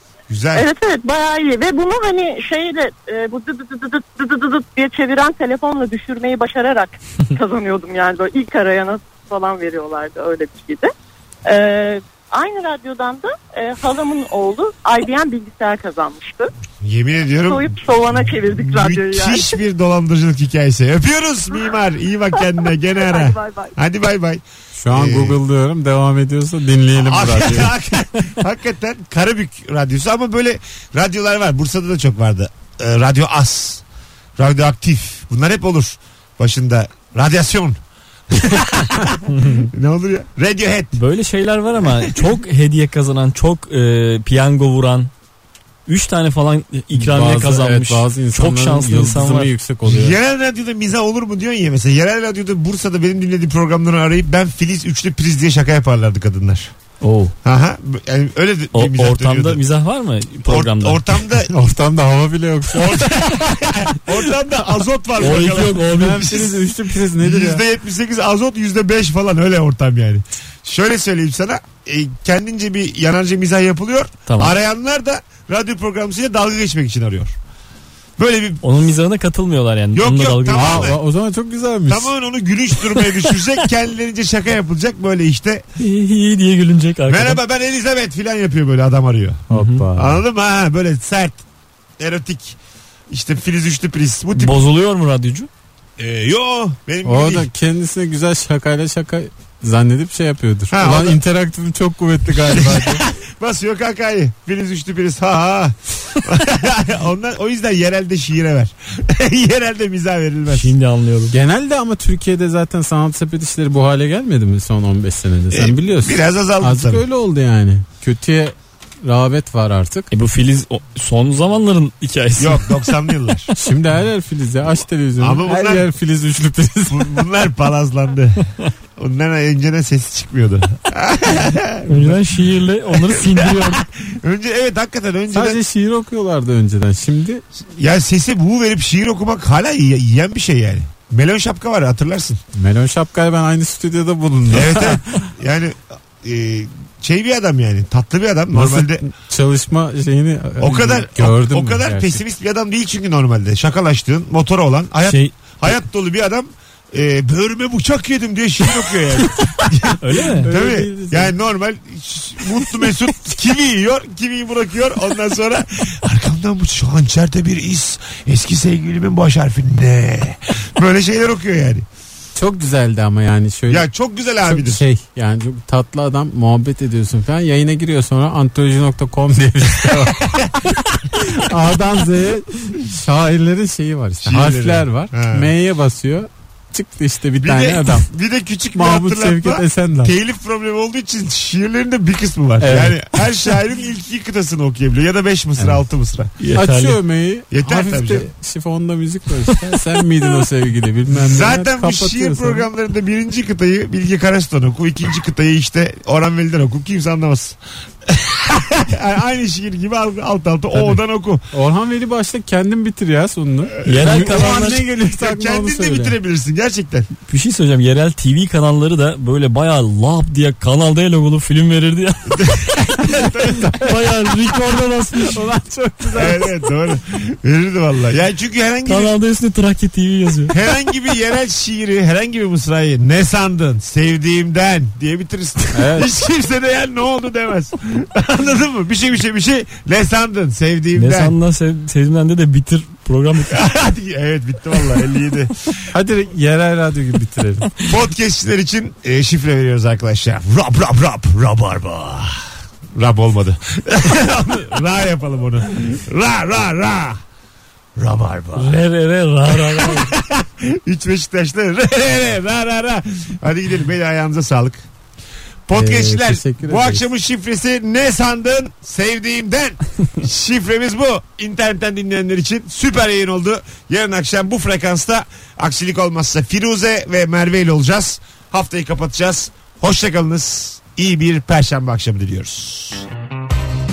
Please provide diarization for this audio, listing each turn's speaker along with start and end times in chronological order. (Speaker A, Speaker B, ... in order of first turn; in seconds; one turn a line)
Speaker A: 0.3-0.7
Speaker B: 0.5-10.9
Speaker B: 11.4-16.5
Speaker A: 16.8-25.4
Speaker B: 17.5-19.6
Speaker B: 22.4-23.7
Speaker C: 24.8-27.7
Speaker A: 26.9-33.8
Speaker A: 34.4-37.8
Speaker A: 38.3-41.0
Speaker D: 39.3-39.7
Speaker D: 41.0-45.1
Speaker D: 45.9-49.5
Speaker C: 46.9-50.2
Speaker A: 49.8-56.7
Speaker D: 57.0-57.3
Speaker A: 57.4-59.6
Speaker D: 58.7-61.0
Speaker A: 60.4-61.5
Speaker C: 61.5-63.2
Speaker A: 62.7-77.3
Speaker D: 65.2-66.3
Speaker C: 65.8-67.6
Speaker D: 74.3-74.5
Speaker A: 78.2-78.6
Speaker D: 78.6-80.9
Speaker A: 79.9-81.0
Speaker C: 80.5-82.1
Speaker A: 81.9-85.6
Speaker D: 83.0-83.4
Speaker D: 85.8-87.4
Speaker A: 87.1-91.4
Speaker C: 89.5-90.2
Speaker D: 89.5-89.8
Speaker A: 92.0-92.6
Speaker A: 93.1-94.6
Speaker D: 94.4-95.5
Speaker A: 96.0-97.5
Speaker C: 97.0-103.0
Speaker A: 100.7-101.2
Speaker A: 102.4-110.7
Speaker D: 110.5-111.3
Speaker C: 111.3-120.1
Speaker A: 115.5-117.0
Speaker D: 120.1-122.9
Speaker A: 122.4-123.5
Speaker C: 123.6-127.2
Speaker A: 125.2-125.9
Speaker A: 126.9-132.2
Speaker D: 131.9-133.8
Speaker A: 132.9-135.6
Speaker C: 135.3-137.4
Speaker A: 137.7-142.4
Speaker C: 142.5-145.2
Speaker A: 144.5-149.1
Speaker C: 148.5-152.2
Speaker A: 150.6-171.8
Speaker D: 155.1-155.5
Speaker D: 160.0-160.5
Speaker C: 160.4-161.3
Speaker C: 172.3-173.9
Speaker A: 173.7-174.8
Speaker C: 174.4-180.5
Speaker A: 179.8-180.7
Speaker C: 181.2-188.1
Speaker A: 184.2-185.5
Speaker A: 187.4-196.3
Speaker C: 188.7-190.1
Speaker C: 192.6-193.2
Speaker D: 196.4-197.0
Speaker C: 196.5-202.7
Speaker A: 197.5-198.3
Speaker A: 201.1-211.4
Speaker C: 211.5-216.2
Speaker A: 213.8-217.1
Speaker D: 213.8-214.8
Speaker D: 217.3-222.9
Speaker A: 222.4-223.7
Speaker C: 223.5-224.5
Speaker D: 223.7-225.4
Speaker C: 225.2-226.5
Speaker A: 226.1-229.1
Speaker D: 228.8-230.5
Speaker A: 230.5-241.3
Speaker C: 235.7-236.1
Speaker D: 240.9-243.5
Speaker A: 243.5-245.7
Speaker C: 245.9-247.7
Speaker A: 247.8-257.2
Speaker A: 257.9-258.8
Speaker D: 258.5-260.1
Speaker A: 259.5-264.8
Speaker A: 265.7-283.1
Speaker C: 265.7-267.0